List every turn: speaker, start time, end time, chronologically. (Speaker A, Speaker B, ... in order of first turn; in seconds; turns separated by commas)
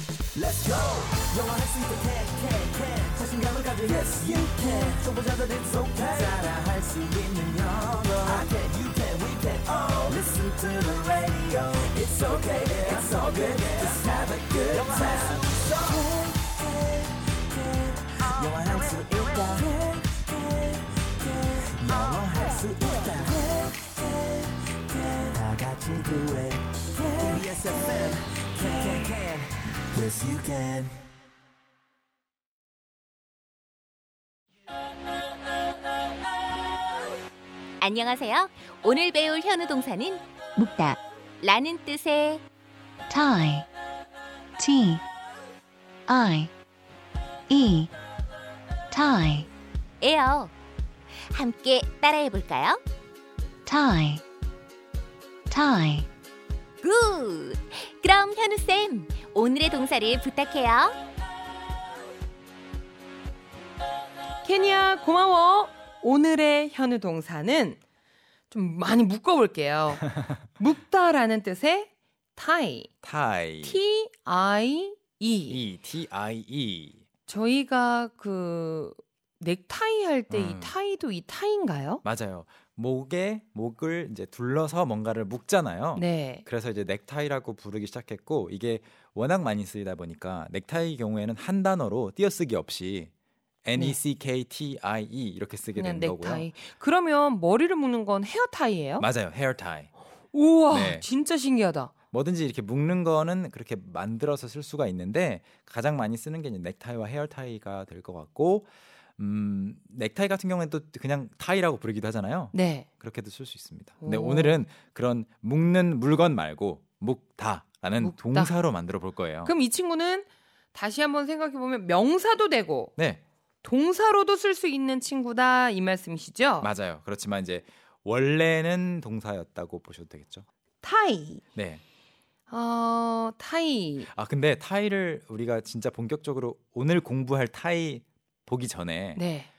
Speaker A: 0.3-30.9, Speaker B: 37.8-42.4, Speaker C: 43.1-43.6, Speaker C: 44.6-45.0, Speaker C: 46.1-46.5, Speaker C: 47.5-47.9, Speaker C: 48.9-49.5, Speaker B: 50.0-50.5, Speaker B: 51.3-52.8, Speaker C: 53.6-54.2, Speaker C: 55.5-56.1, Speaker B: 56.8-61.0, Speaker D: 64.4-67.8, Speaker D: 68.5-72.9, Speaker E: 73.0-73.8, Speaker D: 73.6-75.6, Speaker E: 75.5-77.0, Speaker D: 77.3-82.0, Speaker E: 80.3-80.8, Speaker E: 82.0-93.1, Speaker D: 86.0-86.4, Speaker E: 93.6-96.5, Speaker D: 95.7-99.1, Speaker E: 99.0-99.9, Speaker D: 100.3-101.9, Speaker E: 100.7-101.0, Speaker E: 102.1-119.5, Speaker D: 112.5-112.9, Speaker D: 114.0-114.6, Speaker D: 118.0-118.5, Speaker D: 119.4-122.9, Speaker E: 123.0-123.2, Speaker D: 123.6-126.7, Speaker E: 126.6-130.4, Speaker D: 130.8-131.4, Speaker E: 131.5-131.8, Speaker D: 132.5-134.1, Speaker E: 134.0-139.2, Speaker D: 139.2-139.5